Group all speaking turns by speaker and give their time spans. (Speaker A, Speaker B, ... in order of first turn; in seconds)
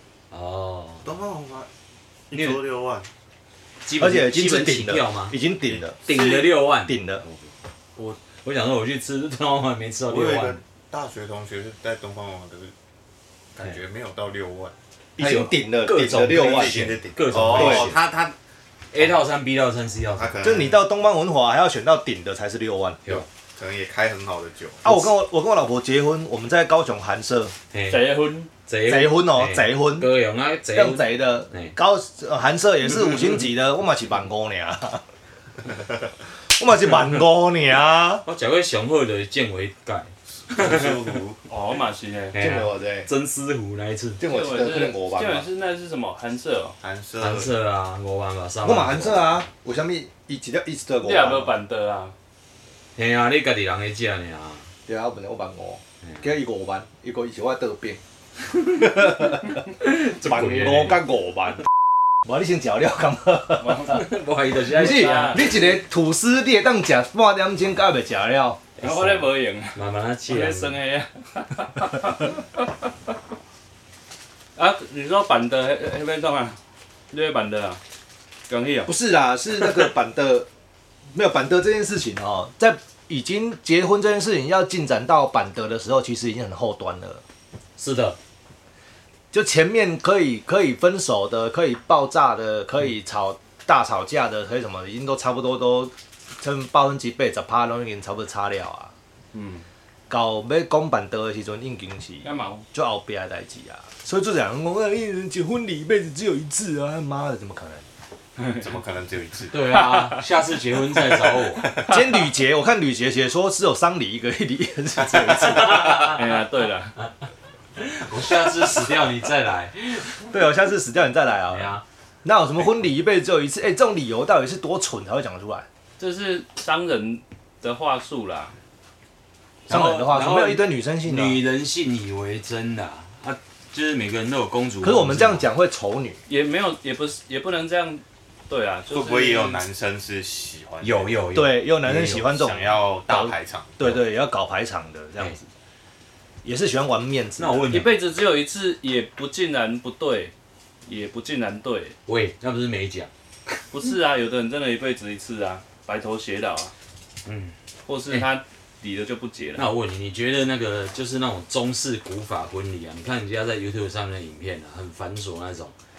Speaker A: 0.3-1.0, 2.3-2.6, 3.9-7.0, 8.0-10.6, 15.2-18.0, 18.9-20.3, 27.7-31.7, 38.2-41.0, 42.3-44.2, 47.2-49.3, 53.0-54.7, 59.8-61.0, 63.9-65.5, 68.8-70.8, 87.8-88.2, 109.5-111.7, 115.7-116.2, 117.8-120.3, 121.5-121.8, 129.7-135.4, 140.8-142.2, 147.4-147.9, 152.1-153.1, 157.2-157.5, 159.6-165.7
Speaker B: 1.0-1.7, 2.3-3.1, 10.1-12.7, 13.6-14.7, 16.0-18.3, 20.2-20.8, 23.6-25.0, 40.5-41.4, 46.8-47.5, 108.6-109.5, 138.9-141.3, 141.9-143.9
Speaker C: 4.0-7.2, 15.2-17.9, 20.4-23.2, 24.8-27.5, 28.9-30.1, 30.7-35.0, 36.5-38.2, 42.3-43.1, 44.2-45.5, 48.6-51.5, 54.9-58.0, 58.7-61.6, 62.2-64.0, 64.7-68.6, 78.8-80.5, 81.1-87.2, 89.3-98.9, 100.1-107.8, 111.9-116.3, 120.3-121.7, 122.2-125.7, 129.7-131.4, 134.8-136.2, 141.3-145.4, 146.4-147.8
Speaker D: 27.9-28.5, 41.5-42.4, 44.2-46.8, 51.0-52.1, 63.6-64.0, 64.7-65.5, 68.8-69.8, 70.3-72.4, 74.5-76.6, 77.1-77.8, 78.5-78.9, 99.3-99.6, 102.2-102.6, 108.4-108.6, 109.7-110.2, 111.7-112.0, 115.8-116.9, 126.0-128.5, 136.3-139.6, 147.7-150.3, 150.9-151.9, 153.7-156.7, 157.9-159.7